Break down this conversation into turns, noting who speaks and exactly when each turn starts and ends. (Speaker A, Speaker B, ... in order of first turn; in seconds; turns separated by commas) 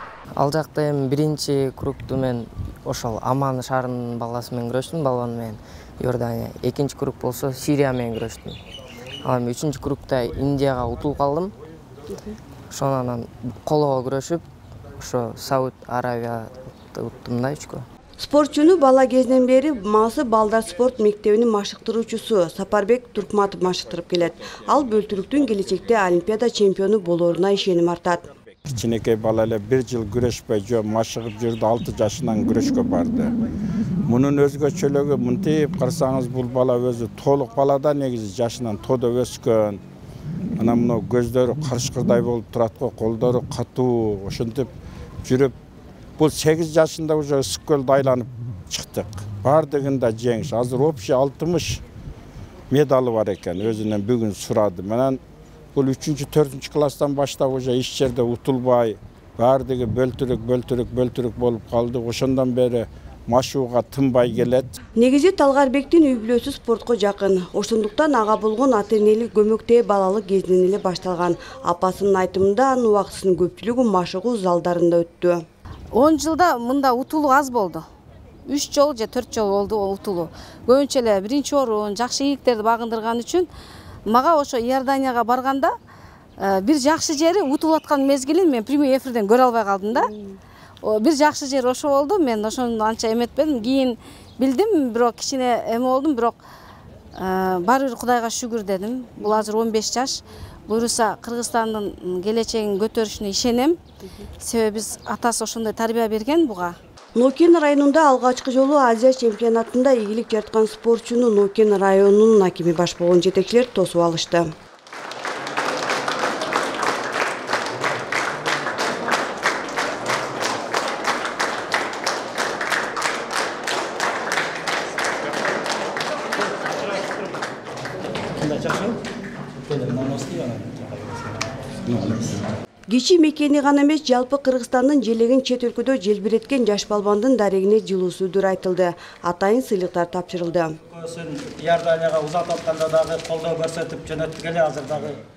Speaker A: 0.4-8.6, Speaker A: 9.2-11.5, Speaker A: 12.7-14.5, Speaker A: 15.0-17.9, Speaker B: 18.2-28.3, Speaker C: 28.7-33.4, Speaker C: 34.1-39.8, Speaker C: 40.6-44.7, Speaker C: 45.2-45.5, Speaker C: 46.2-51.8, Speaker C: 52.7-55.2, Speaker C: 55.8-64.7, Speaker B: 65.0-75.4, Speaker D: 75.9-77.8, Speaker D: 78.5-83.5, Speaker D: 84.1-85.7, Speaker D: 86.4-90.1, Speaker D: 90.8-96.4, Speaker D: 97.2-103.8, Speaker D: 104.4-106.8, Speaker B: 107.2-114.5, Speaker E: 128.2-129.0, Speaker E: 129.6-132.4, Speaker B: 132.9-140.8, Speaker E: 140.9-145.2